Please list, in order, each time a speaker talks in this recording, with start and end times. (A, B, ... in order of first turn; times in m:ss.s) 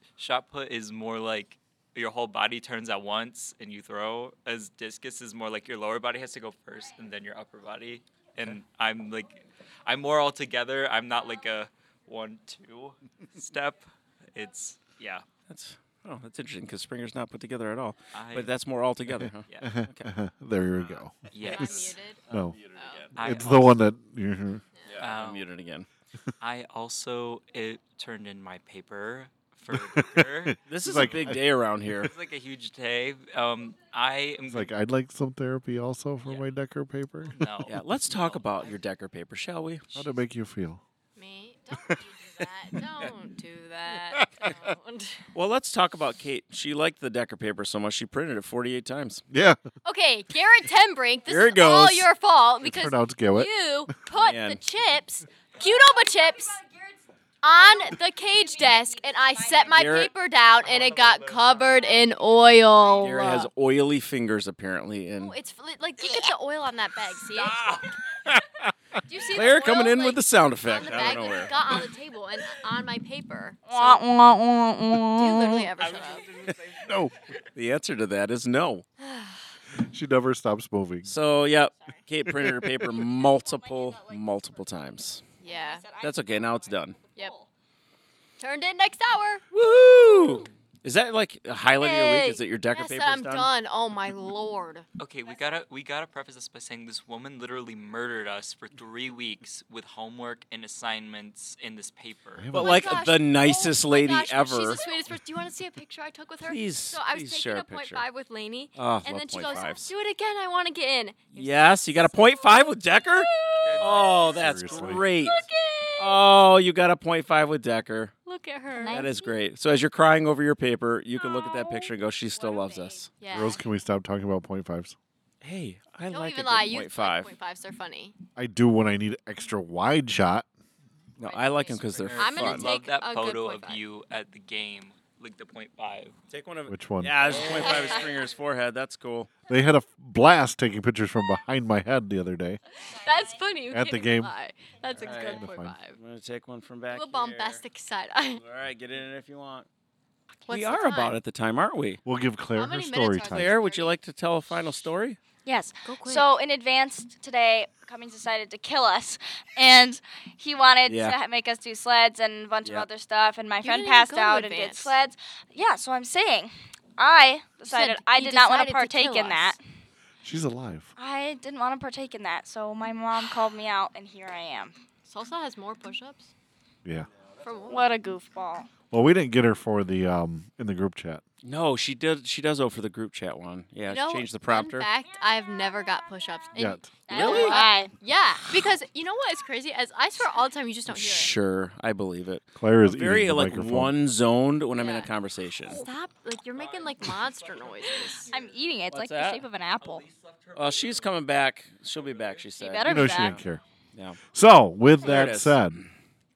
0:00.2-0:15.2 A
0:15.5-0:20.1 B
0:18.1-0:18.6 A
0:19.1-0:21.3 C
0:20.8-0:22.0 A
0:21.4-0:22.2 D
0:22.3-0:22.6 C
0:22.7-0:23.1 D
0:23.1-0:23.8 A
0:23.2-0:24.6 C
0:24.9-0:25.9 B
0:25.0-0:25.5 A
0:26.4-0:31.1 A
0:29.7-0:31.4 C
0:30.7-0:32.1 B
0:32.0-0:34.7 A
0:34.5-0:37.4 C
0:37.3-0:38.8 A
0:37.6-0:39.9 B
0:39.9-0:40.8 C
0:41.2-0:45.3 D
0:44.1-0:44.5 C
0:45.3-0:49.2 B
0:49.3-0:49.6 C
0:49.8-0:56.6 D
0:51.3-0:52.1 B
0:52.6-0:53.5 C
0:54.1-0:54.6 B
0:56.2-0:56.8 E
0:57.4-1:03.5 D
0:57.4-0:59.9 E
0:59.7-1:00.1 B
1:00.7-1:01.6 A
1:02.8-1:03.3 E
1:03.0-1:05.3 B
1:05.2-1:07.9 D
1:07.4-1:07.8 B
1:08.3-1:08.7 C
1:09.0-1:14.0 D
1:09.3-1:11.6 B
1:13.6-1:15.7 E
1:15.1-1:16.3 D
1:15.8-1:16.9 A
1:16.7-1:17.3 C
1:17.6-1:18.8 B
1:19.0-1:19.4 D
1:19.8-1:21.1 C
1:21.0-1:25.2 B
1:22.2-1:22.9 C
1:23.1-1:24.4 E
1:25.4-1:25.8 D
1:25.4-1:26.4 E
1:26.0-1:27.0 B
1:27.0-1:27.5 E
1:28.4-1:29.4 D
1:29.5-1:33.5 B
1:31.8-1:34.8 D
1:35.0-1:42.6 A
1:42.4-1:43.1 C
1:42.5-1:44.8 B
1:42.5-1:52.5 D
1:46.4-1:48.0 B
1:48.8-1:49.9 B
1:51.4-1:55.4 B
1:53.5-1:53.8 D
1:53.6-1:54.2 A
1:53.8-1:55.1 C
1:55.3-1:55.9 D
1:56.0-1:58.1 B
1:58.2-1:59.1 D
1:58.7-1:59.2 E
1:58.9-2:03.1 B
2:01.2-2:03.5 E
2:03.2-2:03.6 D
2:03.3-2:04.9 C
2:05.4-2:07.3 B
2:06.1-2:08.1 D
2:08.4-2:10.4 C
2:11.2-2:12.7 B
2:11.2-2:13.8 D
2:11.8-2:16.1 A
2:16.3-2:19.3 B
2:16.7-2:17.4 C
2:17.4-2:18.1 D
2:19.5-2:22.6 C
2:22.9-2:26.0 D
2:23.7-2:24.3 C
2:24.9-2:27.6 B
2:25.2-2:25.7 C
2:26.9-2:28.4 D
2:28.4-2:29.7 B
2:30.4-2:31.2 D
2:30.5-2:32.0 B
2:32.0-2:33.6 C
2:32.5-2:34.0 D
2:33.3-2:35.2 B
2:35.4-2:49.6 E
2:35.8-2:36.4 D
2:40.8-2:41.2 B
2:43.6-2:45.0 D
2:47.6-2:49.6 D
2:50.2-2:50.9 C
2:51.0-2:54.7 E
2:55.0-2:56.3 D
2:57.4-2:57.8 D
2:57.7-2:58.7 E
2:58.9-3:01.2 C
3:01.4-3:04.9 B
3:03.9-3:11.3 D
3:06.6-3:07.4 C
3:07.1-3:07.9 E
3:07.1-3:07.6 B
3:10.9-3:15.8 B
3:12.5-3:13.9 C
3:14.8-3:15.1 E
3:15.6-3:18.3 D
3:16.5-3:18.5 A
3:18.3-3:20.0 E
3:18.9-3:19.4 B
3:19.8-3:21.2 A
3:20.5-3:23.4 B
3:21.9-3:23.0 A
3:22.6-3:23.4 E
3:22.8-3:23.6 C
3:24.3-3:25.8 C
3:25.0-3:25.7 B